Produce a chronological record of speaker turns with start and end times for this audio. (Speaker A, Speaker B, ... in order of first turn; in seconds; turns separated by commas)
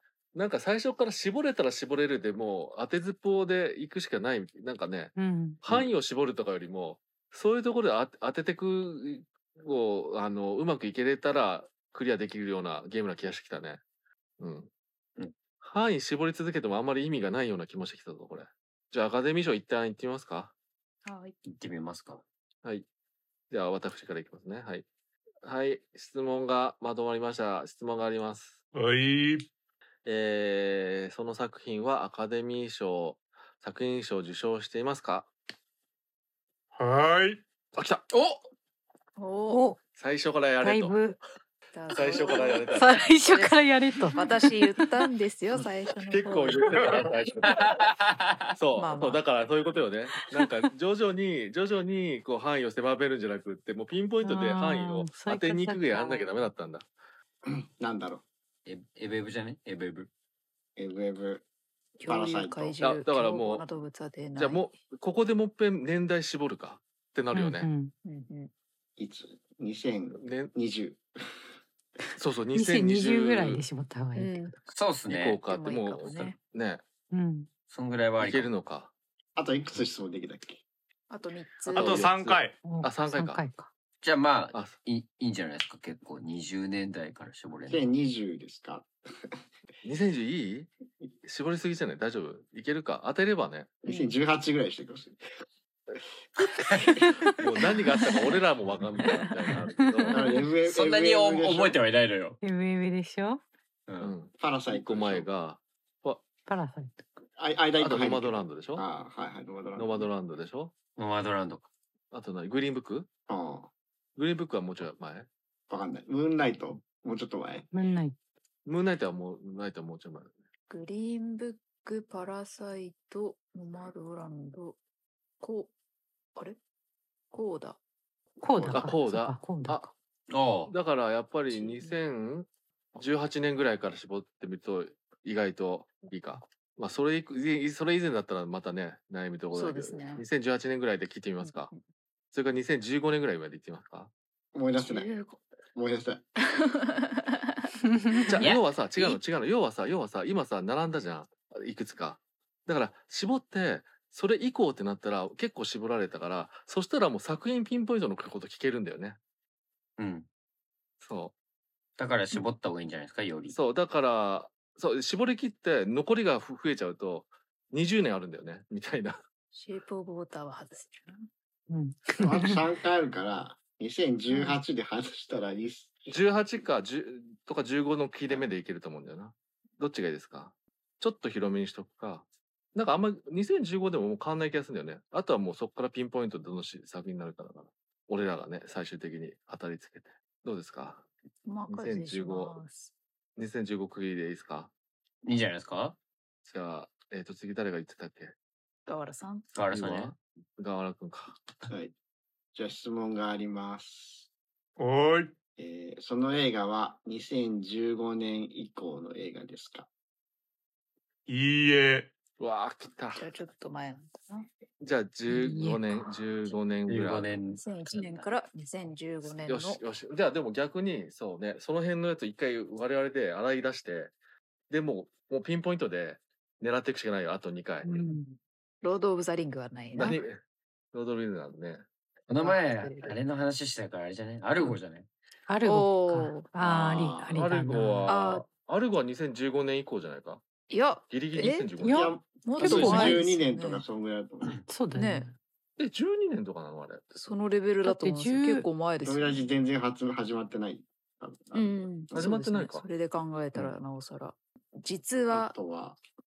Speaker A: 0.3-13.8, Speaker B: 5.1-5.6, Speaker A: 14.4-14.7, Speaker A: 15.6-20.5, Speaker C: 21.0-21.3, Speaker D: 21.4-22.2, Speaker A: 23.5-24.8, Speaker A: 25.4-28.6, Speaker E: 28.7-29.5, Speaker A: 30.0-35.3, Speaker E: 36.8-37.4, Speaker A: 37.7-38.1, Speaker D: 38.1-38.5, Speaker C: 39.2-39.6, Speaker B: 39.5-39.8, Speaker A: 39.9-41.0, Speaker B: 40.6-41.2, Speaker C: 41.7-47.0, Speaker A: 41.9-43.0, Speaker B: 42.7-44.9, Speaker A: 46.1-48.0, Speaker D: 47.5-48.3, Speaker A: 48.5-56.9, Speaker C: 48.8-49.2, Speaker B: 54.2-56.3, Speaker F: 57.4-58.2, Speaker D: 58.6-60.1, Speaker F: 60.8-61.4, Speaker F: 62.0-62.8, Speaker C: 62.0-64.6, Speaker A: 62.8-63.6, Speaker A: 64.4-67.7, Speaker B: 67.3-67.9, Speaker C: 68.0-68.5, Speaker F: 69.0-71.4, Speaker A: 70.1-70.5, Speaker A: 72.2-73.6, Speaker B: 72.5-74.5, Speaker C: 74.2-74.5, Speaker D: 74.7-75.4, Speaker A: 75.1-76.8, Speaker C: 75.4-76.3, Speaker B: 77.1-77.5, Speaker D: 77.7-78.5, Speaker A: 78.2-78.9, Speaker F: 79.3-80.6, Speaker C: 81.1-82.1, Speaker E: 81.7-82.6, Speaker A: 81.7-83.4, Speaker B: 82.6-83.7, Speaker D: 84.0-87.9, Speaker F: 87.7-89.3, Speaker A: 89.8-90.7, Speaker A: 91.2-93.8, Speaker F: 93.8-95.2, Speaker C: 93.8-94.1, Speaker D: 96.4-97.0, Speaker F: 96.7-97.1, Speaker A: 97.4-100.2, Speaker F: 100.1-101.8, Speaker D: 100.7-102.4, Speaker B: 102.4-103.4, Speaker D: 103.9-104.1, Speaker A: 104.0-106.2, Speaker F: 104.4-105.3, Speaker B: 106.5-106.9, Speaker F: 107.4-110.1, Speaker A: 107.8-108.8, Speaker A: 109.7-110.7, Speaker D: 111.0-111.7, Speaker A: 112.1-113.1, Speaker F: 113.3-113.7, Speaker A: 114.2-115.3, Speaker F: 115.7-117.7, Speaker B: 117.7-118.1, Speaker A: 118.7-120.3, Speaker C: 120.7-124.8, Speaker C: 125.4-125.7, Speaker C: 127.3-127.8, Speaker B: 128.4-129.9, Speaker A: 128.6-129.8, Speaker D: 130.3-130.7, Speaker A: 130.7-141.7, Speaker C: 131.5-132.0, Speaker C: 139.5-140.2, Speaker C: 141.4-141.8, Speaker A: 142.3-144.1, Speaker F: 144.5-145.2, Speaker C: 144.8-145.4, Speaker F: 145.7-146.2, Speaker C: 146.5-147.3, Speaker A: 148.3-159.2, Speaker D: 148.4-149.2, Speaker D: 160.0-160.3, Speaker A: 161.0-161.3, Speaker D: 162.0-163.6, Speaker A: 163.5-169.2, Speaker C: 169.5-171.3, Speaker B: 171.7-172.6, Speaker F: 172.2-175.9, Speaker A: 176.1-191.1, Speaker C: 191.4-192.9, Speaker A: 191.7-192.6, Speaker A: 193.3-194.7, Speaker D: 195.2-196.0, Speaker A: 196.4-198.3, Speaker C: 198.8-199.4, Speaker D: 199.5-200.1, Speaker A: 199.7-201.4, Speaker F: 202.5-204.3, Speaker E: 204.8-205.3, Speaker F: 205.6-209.9, Speaker E: 211.3-212.1, Speaker A: 212.4-213.2, Speaker C: 213.1-214.5, Speaker A: 214.8-217.4, Speaker B: 215.3-216.1, Speaker D: 216.9-218.3, Speaker C: 217.6-219.8, Speaker A: 219.2-224.1, Speaker A: 224.7-228.1, Speaker B: 227.8-228.3, Speaker C: 228.8-230.2, Speaker A: 229.9-230.4, Speaker A: 230.9-231.8, Speaker D: 232.3-235.1, Speaker C: 232.4-233.2, Speaker B: 235.5-238.2, Speaker C: 235.6-236.4, Speaker F: 236.6-237.4, Speaker A: 237.3-240.4, Speaker C: 238.1-238.4, Speaker C: 240.7-241.7, Speaker A: 241.1-242.1, Speaker B: 241.8-243.2, Speaker F: 241.8-244.6, Speaker C: 242.4-243.8, Speaker B: 244.7-245.3, Speaker C: 244.9-245.3, Speaker A: 245.8-247.2, Speaker C: 247.2-249.4, Speaker B: 247.8-248.7, Speaker F: 249.0-252.3, Speaker C: 251.5-255.5, Speaker A: 252.1-252.9, Speaker F: 255.3-256.0